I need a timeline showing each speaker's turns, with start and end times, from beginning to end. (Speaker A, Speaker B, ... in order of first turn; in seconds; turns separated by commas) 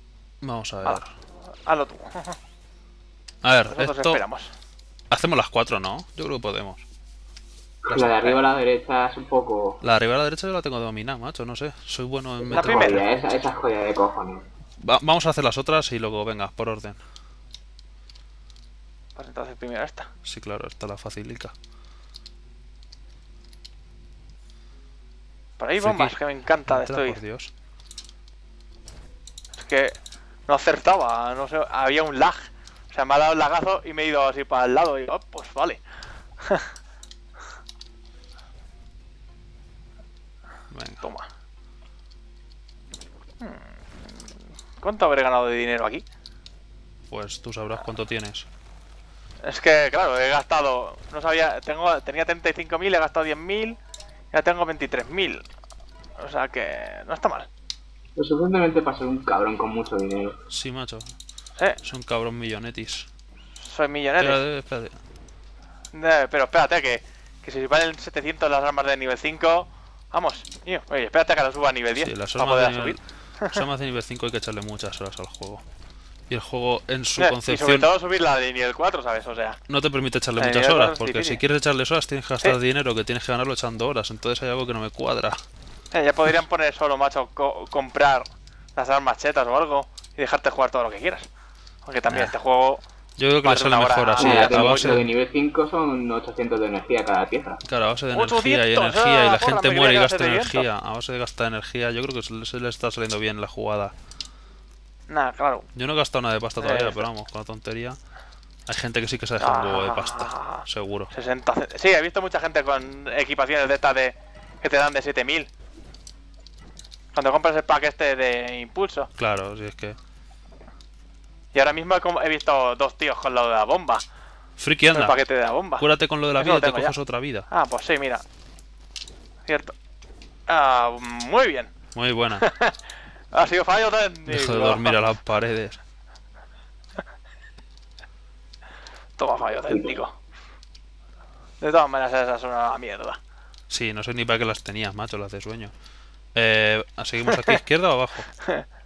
Speaker A: 0.4-1.1, Speaker B: 1.6-2.4, Speaker A: 3.4-4.2, Speaker B: 3.7-4.5, Speaker A: 5.1-6.8, Speaker C: 7.8-9.8, Speaker A: 7.9-8.3, Speaker A: 9.8-13.2, Speaker C: 12.4-14.4, Speaker B: 12.5-13.0, Speaker A: 14.8-17.0, Speaker B: 19.2-20.1, Speaker A: 20.2-21.5, Speaker B: 25.6-27.2, Speaker A: 25.8-27.5, Speaker B: 29.6-35.8, Speaker B: 36.4-36.7, Speaker A: 40.7-41.0, Speaker B: 41.0-41.3, Speaker B: 43.4-44.2, Speaker B: 44.8-46.0, Speaker A: 47.1-48.5, Speaker B: 49.4-53.8, Speaker B: 54.3-55.5, Speaker B: 56.2-57.5, Speaker C: 58.2-60.4, Speaker A: 60.5-61.1, Speaker A: 61.8-63.1, Speaker B: 63.6-64.5, Speaker A: 64.2-65.0, Speaker B: 65.9-73.6, Speaker A: 72.0-75.6, Speaker A: 76.3-77.9, Speaker B: 77.2-79.6, Speaker A: 79.7-85.4, Speaker B: 80.4-81.4, Speaker B: 85.9-91.3, Speaker B: 91.8-92.8, Speaker A: 92.1-92.3, Speaker A: 93.2-95.1, Speaker B: 93.4-95.0, Speaker C: 94.2-97.6, Speaker A: 97.6-103.9, Speaker B: 98.1-100.7, Speaker B: 105.1-105.7, Speaker A: 105.8-108.0, Speaker B: 106.6-107.1, Speaker A: 108.7-111.1, Speaker B: 109.4-115.5, Speaker B: 117.1-119.1, Speaker A: 119.2-120.0, Speaker B: 121.5-124.0, Speaker A: 124.6-125.2, Speaker B: 124.9-127.0, Speaker A: 125.8-127.5, Speaker B: 127.5-128.2, Speaker B: 129.5-129.7, Speaker B: 130.5-131.7, Speaker A: 131.9-132.5, Speaker B: 132.4-135.0, Speaker A: 134.3-135.8, Speaker B: 139.2-140.2, Speaker C: 139.7-140.0, Speaker B: 141.6-143.2, Speaker A: 143.7-145.7, Speaker A: 146.3-148.3, Speaker B: 147.3-147.6, Speaker B: 148.4-148.7